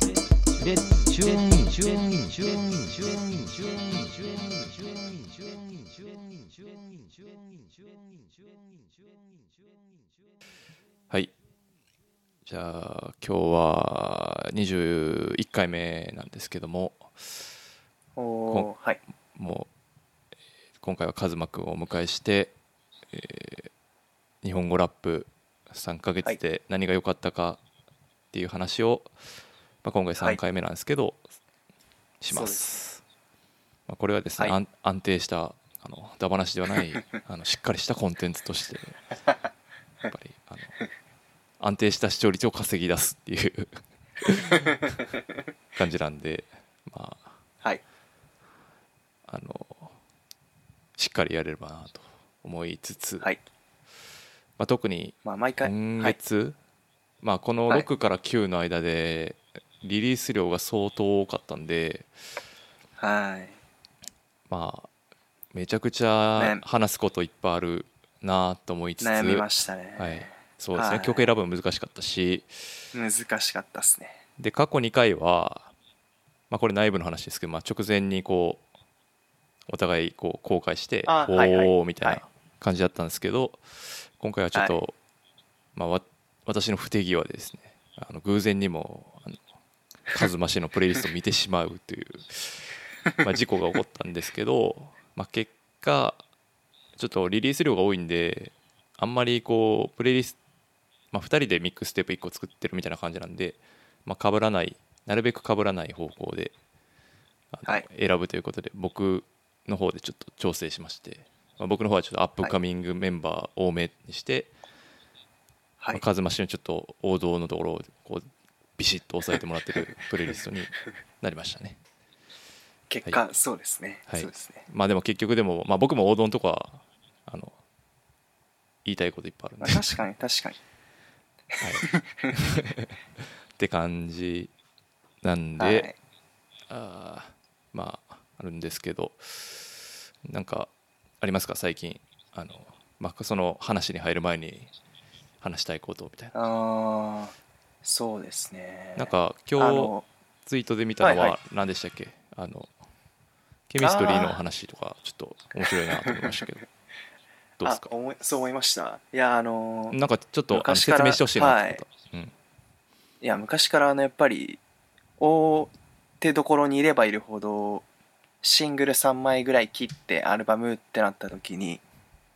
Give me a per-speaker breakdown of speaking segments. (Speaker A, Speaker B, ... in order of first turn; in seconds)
Speaker A: 0.6-6.5
Speaker B: 12.4-17.4, 19.3-19.7, 20.8-22.5, 23.1-23.7, 24.4-27.6, 28.3-29.1, 29.8-31.2, 32.2-33.0, 33.9-39.0, 40.1-40.7, 41.6-44.9, 45.7-47.4, 49.3-49.9, 51.0-53.3, 54.6-56.5, 57.2-62.1, 64.5-64.9, 65.5-72.5, 74.4-75.7, 76.5-78.6, 79.7-85.0, 85.7-89.4, 90.1-92.6, 93.2-96.2, 97.0-100.4, 101.1-106.5, 107.5-114.5, 115.9-121.8, 124.1-127.5, 128.8-129.8, 131.6-134.5, 135.2-135.9, 136.7-140.7, 141.2-144.7, 145.4-146.3, 148.9-149.9, 150.4-152.7, 153.7-156.6, 157.6-157.9, 159.9-162.3
Speaker C: 18.1-19.0, 32.3-32.8, 55.2-56.1, 63.0-63.6, 66.3-66.6, 69.0-71.3, 72.9-74.2, 81.0-82.2, 122.9-124.7, 129.6-130.6, 131.6-132.4, 135.6-135.9, 146.3-147.3, 147.8-150.1, 151.0-151.3, 153.8-154.4, 155.6-156.4, 157.6-160.0, 160.5-161.8, 163.2-164.6, 165.2-167.8, 168.4-171.8